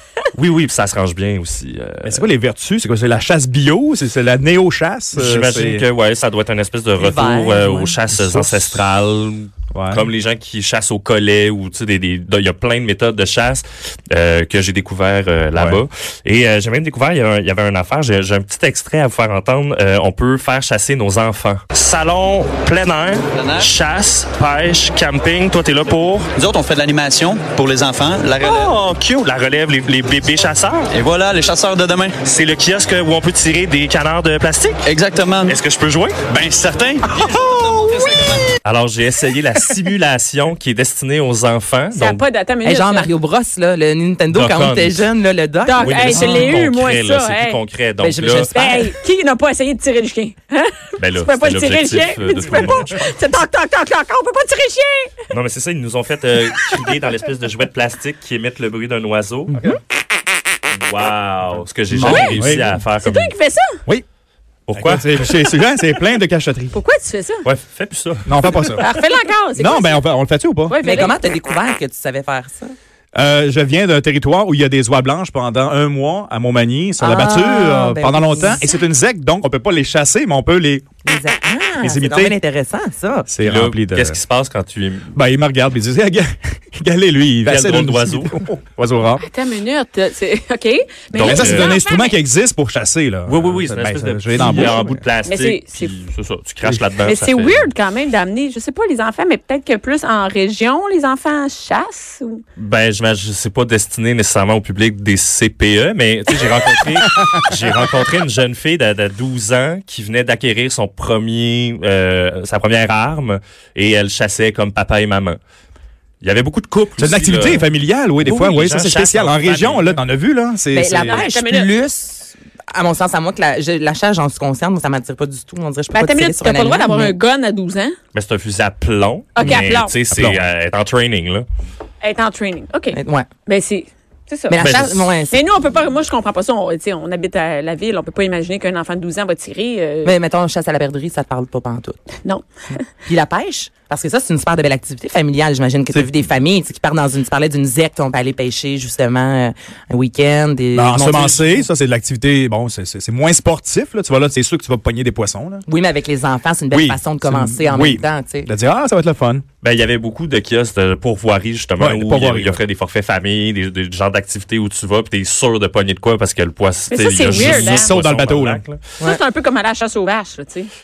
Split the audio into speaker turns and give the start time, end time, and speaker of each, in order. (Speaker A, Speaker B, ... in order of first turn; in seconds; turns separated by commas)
Speaker A: 0.3-2.2, Speaker B: 2.0-5.8, Speaker A: 5.1-26.3, Speaker C: 7.0-8.0, Speaker B: 8.1-8.8, Speaker B: 9.7-10.1, Speaker B: 15.6-15.8, Speaker D: 23.4-23.7, Speaker D: 26.4-28.8, Speaker A: 28.4-30.9, Speaker D: 30.9-32.1, Speaker A: 32.2-34.8, Speaker D: 34.9-35.6, Speaker A: 35.5-36.2, Speaker D: 36.3-38.5, Speaker A: 38.6-42.2, Speaker E: 41.9-43.1, Speaker C: 42.6-46.5, Speaker A: 44.3-45.1, Speaker E: 45.6-47.6, Speaker A: 45.8-48.5, Speaker C: 48.0-48.9, Speaker E: 48.5-55.1, Speaker A: 51.0-53.1, Speaker A: 55.3-59.6, Speaker A: 60.7-63.3, Speaker B: 61.9-62.7, Speaker E: 62.0-62.4, Speaker E: 63.0-63.8, Speaker A: 64.7-65.4, Speaker B: 64.7-66.8, Speaker E: 66.7-67.4, Speaker A: 67.4-68.9, Speaker B: 68.2-68.8, Speaker E: 68.8-70.0, Speaker B: 69.6-70.8, Speaker E: 70.7-71.1, Speaker C: 70.8-72.7, Speaker B: 73.1-80.9, Speaker C: 77.0-78.6, Speaker C: 81.0-83.3, Speaker B: 81.8-82.4, Speaker B: 83.3-84.2, Speaker A: 83.4-85.1, Speaker B: 85.1-89.2, Speaker A: 87.5-88.3, Speaker E: 89.2-92.2, Speaker A: 91.1-91.8, Speaker B: 91.2-95.0, Speaker A: 93.3-97.7, Speaker E: 95.2-96.0, Speaker E: 97.0-102.4, Speaker A: 102.6-115.4, Speaker A: 116.2-117.7, Speaker B: 117.0-121.2, Speaker A: 118.2-120.0, Speaker C: 120.7-127.2, Speaker E: 121.1-121.7, Speaker E: 125.9-128.0, Speaker A: 128.1-131.4, Speaker E: 129.3-129.9, Speaker B: 130.1-130.4, Speaker E: 132.0-134.8, Speaker C: 132.9-133.3, Speaker C: 134.5-135.4, Speaker A: 134.6-135.1, Speaker E: 135.3-140.1, Speaker C: 140.0-142.0, Speaker E: 142.2-142.8, Speaker C: 143.1-151.7, Speaker B: 150.7-155.6, Speaker C: 155.7-158.5, Speaker B: 156.7-159.4, Speaker A: 159.6-168.8, Speaker B: 161.8-162.6, Speaker E: 166.9-167.9, Speaker B: 167.3-168.6, Speaker E: 169.0-170.7